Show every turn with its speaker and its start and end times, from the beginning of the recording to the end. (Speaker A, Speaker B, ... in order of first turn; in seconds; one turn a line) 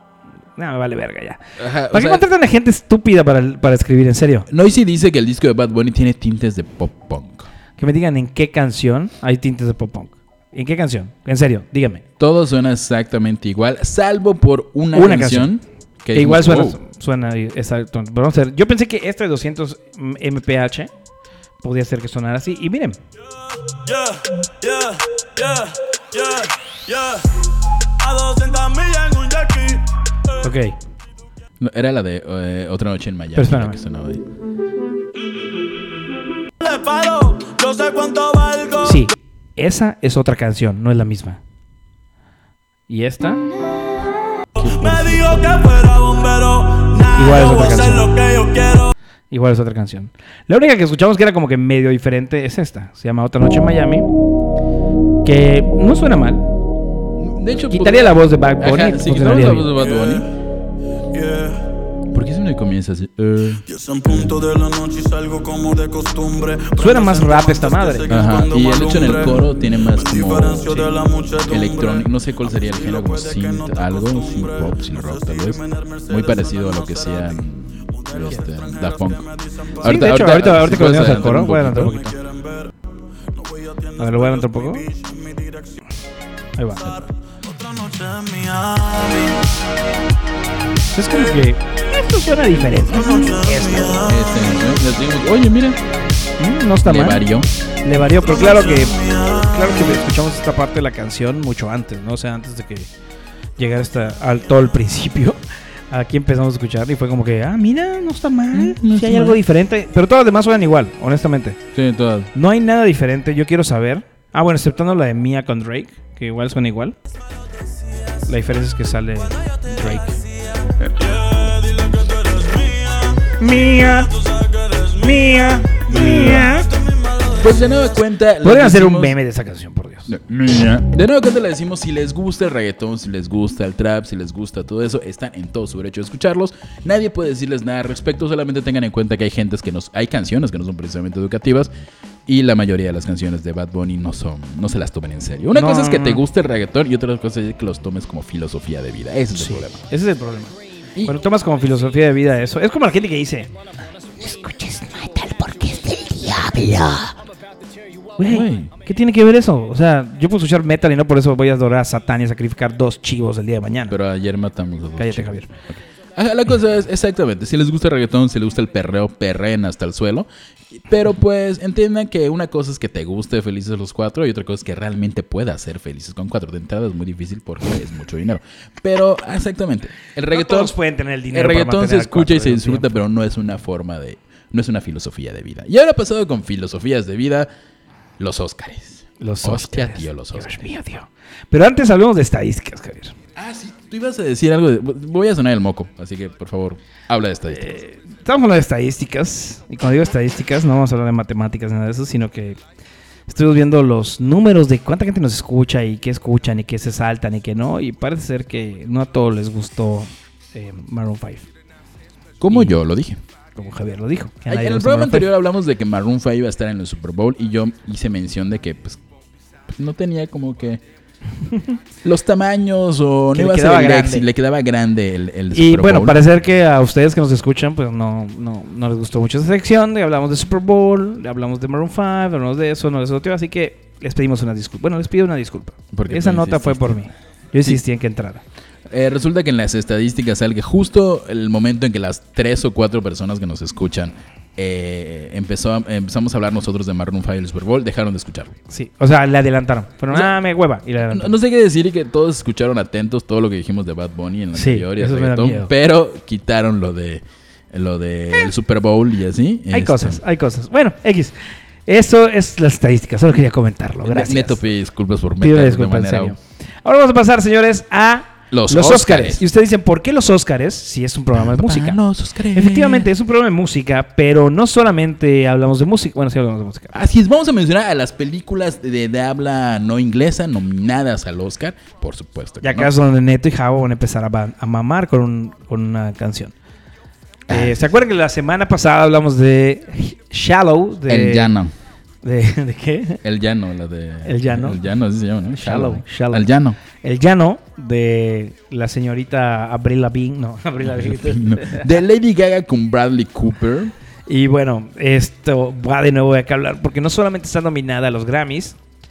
Speaker A: 0.6-1.4
Speaker B: 1.6-2.3
Speaker A: 1.9-4.5
Speaker B: 4.5-7.5
Speaker A: 7.8-12.0
Speaker B: 12.2-16.8
Speaker A: 14.9-15.5
Speaker A: 16.1-20.9
Speaker A: 21.6-23.0
Speaker C: 23.8-27.4
Speaker C: 28.0-29.9
Speaker A: 30.4-30.8
Speaker B: 31.6-34.2
Speaker A: 33.4-33.8
Speaker C: 36.6-39.0
Speaker A: 38.8-41.4
Speaker A: 42.9-43.4
Speaker C: 44.6-48.9
Speaker B: 44.6-45.3
Speaker A: 44.8-45.5
Speaker A: 47.2-48.1
Speaker A: 49.3-54.1
Speaker A: 55.2-56.5
Speaker B: 57.2-60.3
Speaker A: 57.7-59.7
Speaker C: 59.7-60.4
Speaker C: 61.1-61.7
Speaker B: 62.1-63.6
Speaker C: 63.6-80.1
Speaker A: 66.8-68.2
Speaker B: 68.1-70.7
Speaker B: 71.5-79.2
Speaker B: 79.8-82.0
Speaker A: 79.8-82.1
Speaker C: 81.8-82.7
Speaker C: 83.3-85.8
Speaker A: 84.0-84.8
Speaker A: 86.6-86.8
Speaker B: 86.8-87.1
Speaker C: 86.9-89.5
Speaker A: 90.9-94.0
Speaker C: 91.1-91.5
Speaker C: 92.8-94.6
Speaker B: 94.0-95.8
Speaker A: 96.4-97.2
Speaker B: 96.8-97.5
Speaker A: 97.8-102.9
Speaker C: 98.2-100.0
Speaker A: 103.6-105.4
Speaker A: 105.9-111.6
Speaker B: 108.5-109.4
Speaker B: 111.7-112.3
Speaker A: 112.3-117.0
Speaker A: 118.3-120.2
Speaker C: 120.9-127.8
Speaker A: 123.4-124.1
Speaker A: 125.0-126.7
Speaker B: 125.9-126.5
Speaker B: 127.4-129.2
Speaker A: 128.4-130.1
Speaker B: 130.1-141.7
Speaker B: 142.3-149.8
Speaker A: 145.5-146.2
Speaker A: 149.3-153.5
Speaker A: 154.2-157.1
Speaker A: 158.2-164.0
Speaker B: 158.3-158.7
Speaker B: 163.9-180.8
Speaker A: 165.0-165.5
Speaker A: 180.3-182.9
Speaker B: 181.3-187.5
Speaker B: 188.2-190.7
Speaker A: 189.2-193.2
Speaker B: 193.4-197.8
Speaker A: 197.5-202.6
Speaker A: 203.3-211.5
Speaker B: 212.4-213.2
Speaker A: 212.5-212.8
Speaker A: 213.6-215.3
Speaker B: 214.5-219.0
Speaker B: 219.7-220.8
Speaker B: 222.0-226.3
Speaker A: 223.3-224.3
Speaker A: 225.5-238.4
Speaker B: 235.9-237.0
Speaker B: 238.9-248.6
Speaker A: 248.7-251.3
Speaker B: 251.1-260.2
Speaker A: 254.5-255.7
Speaker A: 259.7-261.4
Speaker A: 261.9-264.6
Speaker B: 264.0-266.4
Speaker A: 265.4-272.0
Speaker B: 268.5-269.4
Speaker B: 271.3-273.1
Speaker A: 272.5-276.9
Speaker B: 276.9-282.9
Speaker A: 282.6-286.5
Speaker B: 287.5-287.8
Speaker A: 287.5-291.5
Speaker B: 291.1-291.7
Speaker A: 292.2-293.2
Speaker B: 293.2-296.8
Speaker A: 294.2-294.8
Speaker A: 295.5-296.5
Speaker A: 297.0-301.9
Speaker B: 300.8-303.9
Speaker A: 304.3-308.8